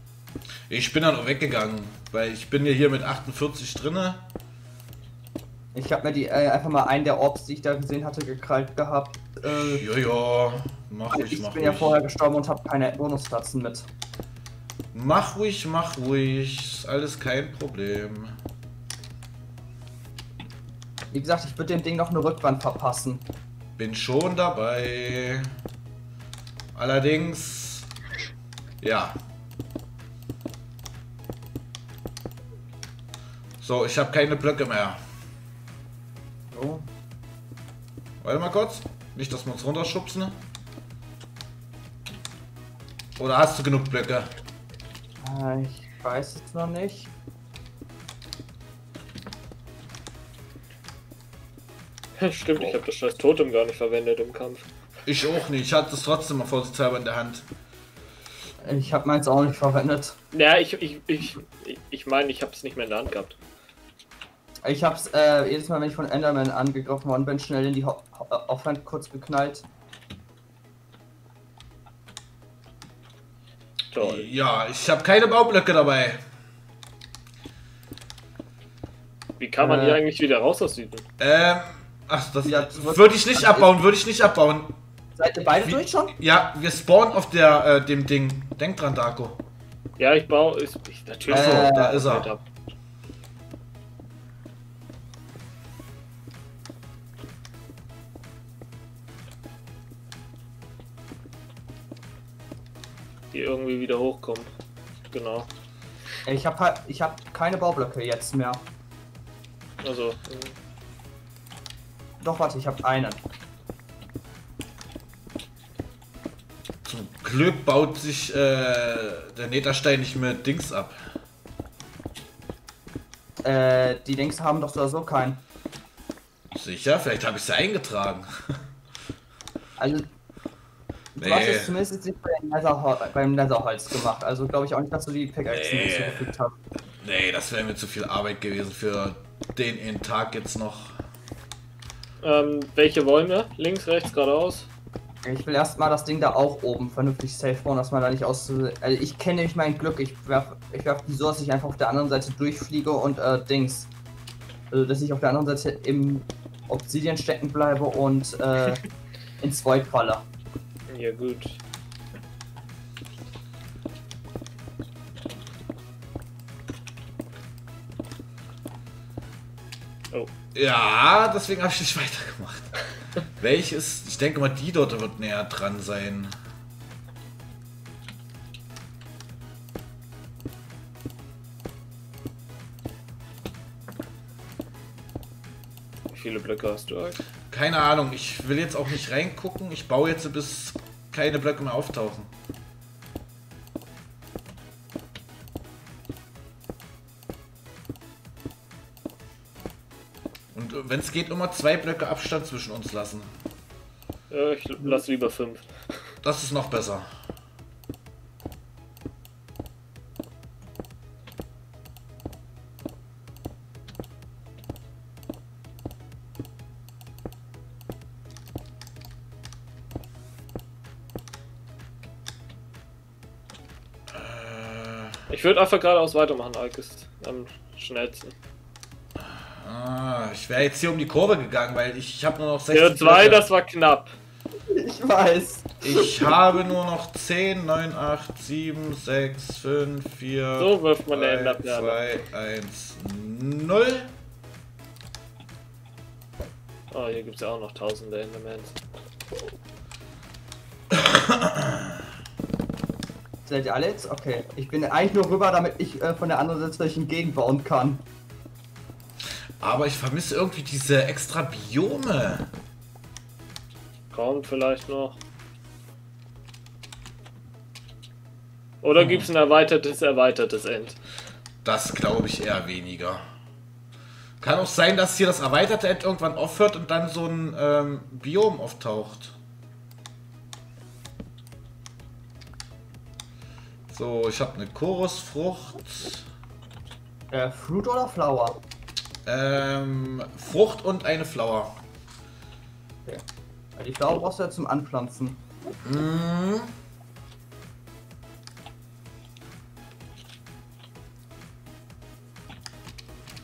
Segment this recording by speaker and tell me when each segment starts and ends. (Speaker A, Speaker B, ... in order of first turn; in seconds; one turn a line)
Speaker A: 0.7-4.2
Speaker B: 5.7-9.9
Speaker A: 9.4-12.0
Speaker B: 11.1-13.9
Speaker A: 14.9-18.4
Speaker B: 21.1-23.2
Speaker A: 23.8-25.5
Speaker A: 26.8-27.9
Speaker A: 28.8-29.2
Speaker A: 33.6-35.0
Speaker B: 36.5-36.9
Speaker A: 38.2-40.4
Speaker A: 43.2-44.3
Speaker B: 45.2-47.1
Speaker C: 52.2-54.6
Speaker A: 55.1-57.5
Speaker B: 58.6-60.2
Speaker C: 60.3-63.4
Speaker B: 64.6-69.7
Speaker C: 73.9-74.3
Speaker A: 74.0-76.2
Speaker C: 79.4-81.0
Speaker B: 79.6-80.0
Speaker A: 81.2-84.8
Speaker B: 82.4-83.8
Speaker B: 85.2-86.2
Speaker A: 85.6-89.4
Speaker C: 90.0-92.4
Speaker A: 91.3-92.3
Speaker B: 91.3-92.0
Speaker C: 103.3-104.5
Speaker C: 105.1-105.5
Speaker B: 106.2-108.6
Speaker C: 109.8-110.5
Speaker B: 112.2-113.2
Speaker A: 116.8-121.0
Speaker B: 123.4-125.4
Speaker A: 126.5-128.3
Speaker B: 129.8-130.1
Speaker B: 131.2-136.5
Speaker A: 131.2-131.8
Speaker A: 135.5-136.4
Speaker A: 137.0-141.0
Speaker C: 142.2-144.7
Speaker B: 145.2-153.9
Speaker B: 154.7-158.8
Speaker B: 159.4-160.2
Speaker C: 160.9-161.6
Speaker A: 170.5-172.8
Speaker A: 173.4-176.3
Speaker C: 186.1-187.2
Speaker A: 187.5-192.3
Speaker A: 200.5-203.3
Speaker C: 204.3-205.7
Speaker A: 206.2-207.1
Speaker A: 224.1-225.2
Speaker C: 225.3-228.3
Speaker A: 229.6-233.4
Speaker C: 232.7-234.1
Speaker B: 234.7-236.3
Speaker A: 235.8-244.1
Speaker C: 240.6-242.1
Speaker C: 246.9-248.8
Speaker A: 250.9-251.9
Speaker B: 253.5-258.1
Speaker A: 259.6-262.5
Speaker C: 264.1-265.2
Speaker C: 268.8-271.0
Speaker A: 269.0-269.3
Speaker A: 271.6-273.2
Speaker A: 274.4-279.4
Speaker A: 283.9-286.2
Speaker B: 287.3-288.6
Speaker A: 289.3-291.7
Speaker B: 293.8-295.4
Speaker A: 295.8-296.7